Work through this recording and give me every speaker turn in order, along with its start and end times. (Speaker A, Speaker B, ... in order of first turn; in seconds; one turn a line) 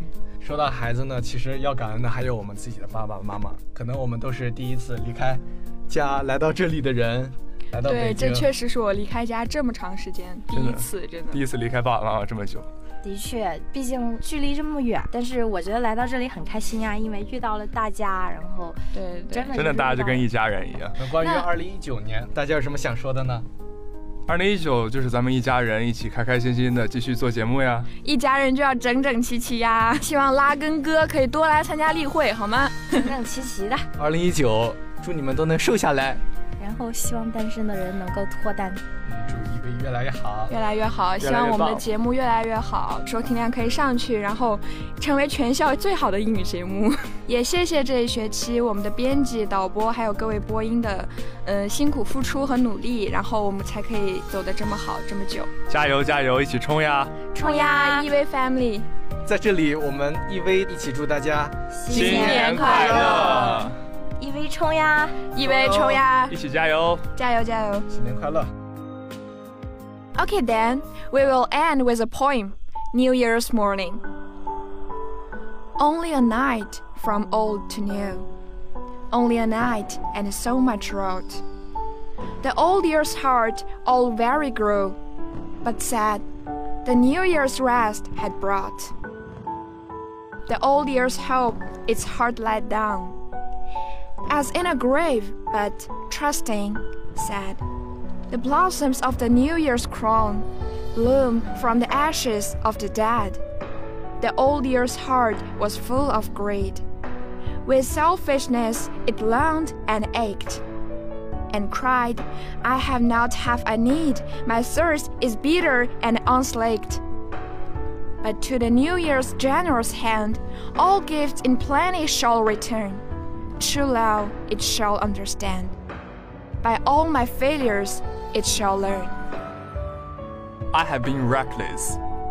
Speaker A: 0.4-8.5
Speaker B: 7.8-11.4
Speaker C: 10.5-12.7
Speaker D: 13.0-20.3
Speaker B: 18.9-19.5
Speaker C: 19.5-21.0
Speaker A: 20.9-23.5
Speaker C: 24.3-27.9
Speaker B: 28.0-33.0
Speaker D: 32.9-33.9
Speaker A: 34.0-36.2
Speaker D: 36.6-38.8
Speaker A: 39.0-40.5
Speaker B: 40.5-55.5
Speaker A: 41.2-41.8
Speaker C: 55.7-57.2
Speaker D: 57.3-58.1
Speaker B: 57.3-58.9
Speaker A: 59.2-61.6
Speaker D: 61.7-63.2
Speaker B: 61.9-63.7
Speaker C: 61.9-63.8
Speaker A: 62.7-63.2
Speaker D: 64.2-65.3
Speaker B: 65.3-66.3
Speaker A: 65.4-66.0
Speaker C: 66.3-67.0
Speaker B: 67.1-67.8
Speaker A: 67.9-68.5
Speaker B: 70.2-74.0
Speaker B: 75.8-78.3
Speaker B: 79.1-81.4
Speaker B: 82.4-85.0
Speaker B: 85.6-86.2
Speaker B: 86.8-88.9
Speaker B: 90.5-93.2
Speaker B: 94.3-97.6
Speaker B: 98.3-103.4
Speaker B: 104.2-106.8
Speaker B: 107.6-110.6
Speaker B: 111.5-117.0
Speaker B: 118.2-123.0
Speaker B: 123.6-125.7
Speaker B: 126.6-129.2
Speaker C: 130.7-132.0